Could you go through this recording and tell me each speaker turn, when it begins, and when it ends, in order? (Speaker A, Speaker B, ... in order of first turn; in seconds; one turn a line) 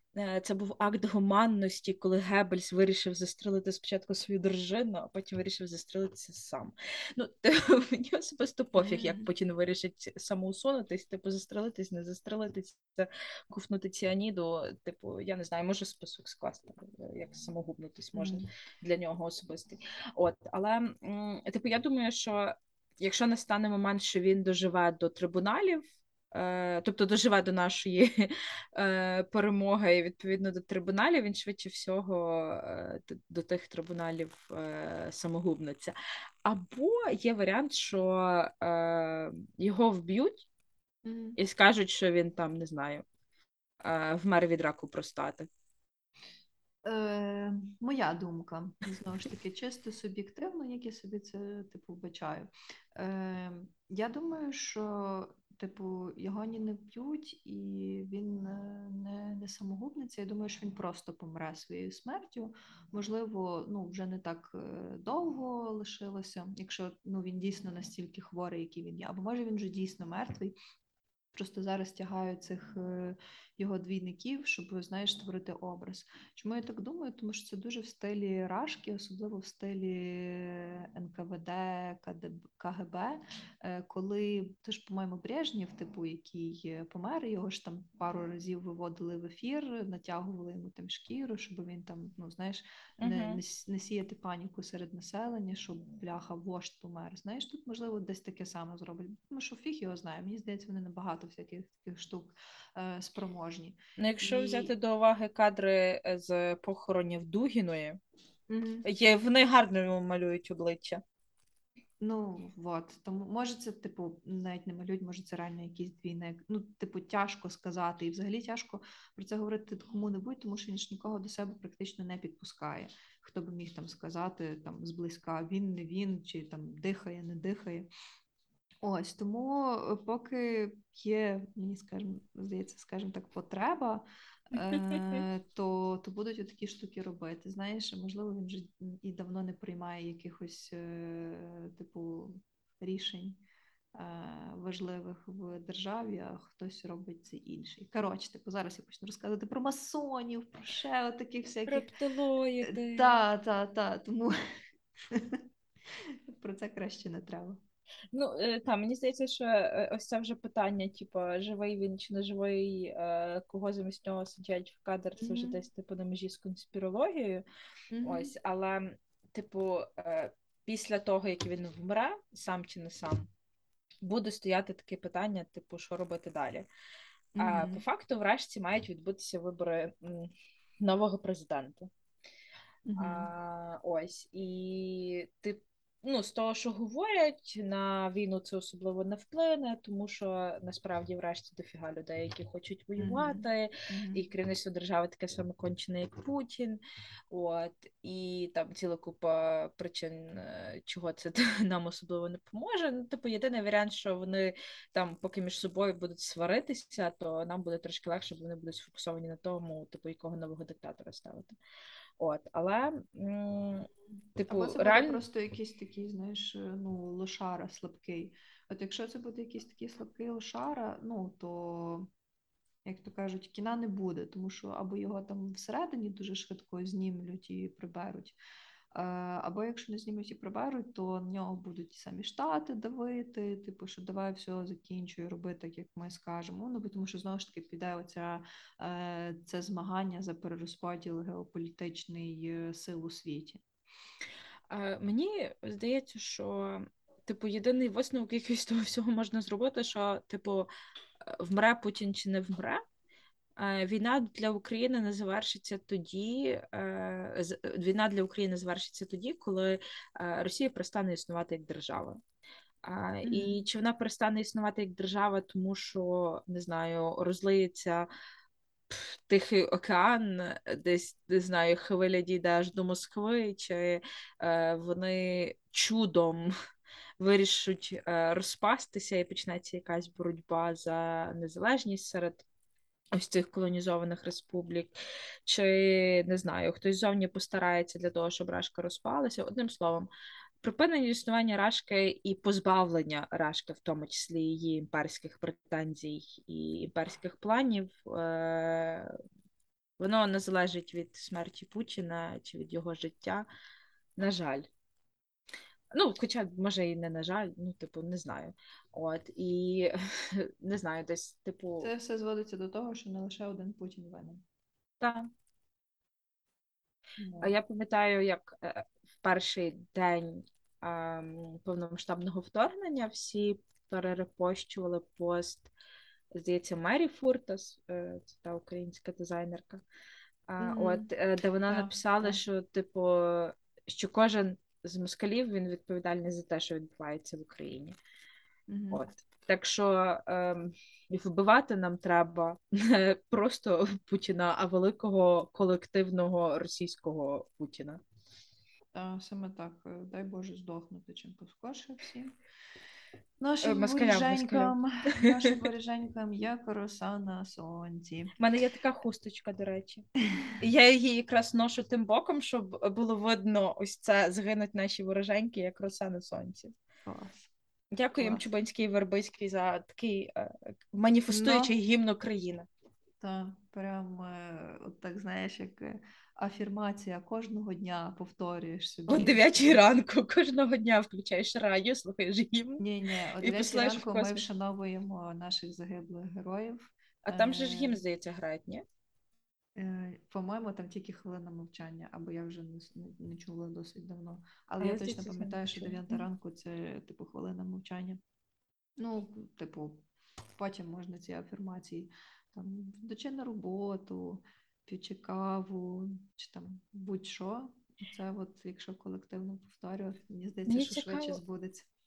Speaker A: 0.1-40.5
Speaker B: 8.8-9.3
Speaker B: 18.1-18.5
Speaker B: 41.0-41.4
Speaker A: 41.4-43.0
Speaker A: 43.8-45.5
Speaker B: 46.9-70.5
Speaker B: 71.3-104.7
Speaker A: 93.0-93.4
Speaker A: 104.0-108.0
Speaker B: 108.5-108.9
Speaker A: 108.8-111.0
Speaker B: 112.0-127.9
Speaker B: 128.8-143.4
Speaker A: 134.7-135.2
Speaker B: 143.9-151.9
Speaker A: 151.7-153.1
Speaker B: 152.6-154.3
Speaker B: 155.1-155.4
Speaker B: 156.0-157.6
Speaker A: 158.1-167.4
Speaker B: 165.2-165.6
Speaker B: 167.9-168.3
Speaker A: 168.0-173.3
Speaker A: 174.0-176.7
Speaker B: 177.4-177.8
Speaker A: 177.4-181.9
Speaker B: 182.9-183.3
Speaker A: 183.0-196.8
Speaker B: 193.0-194.3
Speaker A: 197.3-211.6
Speaker A: 212.2-215.2
Speaker B: 214.5-222.1
Speaker B: 222.8-228.4
Speaker B: 228.9-243.6
Speaker A: 244.7-250.7
Speaker A: 251.2-252.8
Speaker A: 253.6-262.2
Speaker A: 262.8-268.1
Speaker B: 263.2-263.6
Speaker A: 268.9-276.5
Speaker A: 277.2-282.4
Speaker A: 283.1-290.1
Speaker A: 290.6-299.1
Speaker A: 300.0-303.5
Speaker A: 304.2-304.7
Speaker A: 305.9-311.9
Speaker B: 311.8-314.4
Speaker A: 315.0-315.3
Speaker B: 317.2-317.6
Speaker A: 317.4-325.7
Speaker A: 326.3-329.8
Speaker A: 330.5-338.0
Speaker B: 330.6-331.1
Speaker B: 331.7-332.4
Speaker B: 338.7-339.0
Speaker A: 338.9-348.0
Speaker B: 348.9-352.4
Speaker B: 353.4-358.3
Speaker A: 353.6-355.7
Speaker A: 358.4-360.1
Speaker A: 360.6-366.7
Speaker B: 367.1-367.5
Speaker A: 367.9-372.7
Speaker B: 368.2-368.4
Speaker B: 371.3-371.7
Speaker B: 373.2-379.8
Speaker A: 379.1-382.8
Speaker B: 382.8-388.0
Speaker A: 383.4-384.4
Speaker A: 387.2-388.8
Speaker B: 389.8-398.2
Speaker A: 394.8-396.2
Speaker B: 399.0-400.0
Speaker B: 400.6-411.9
Speaker A: 410.7-411.4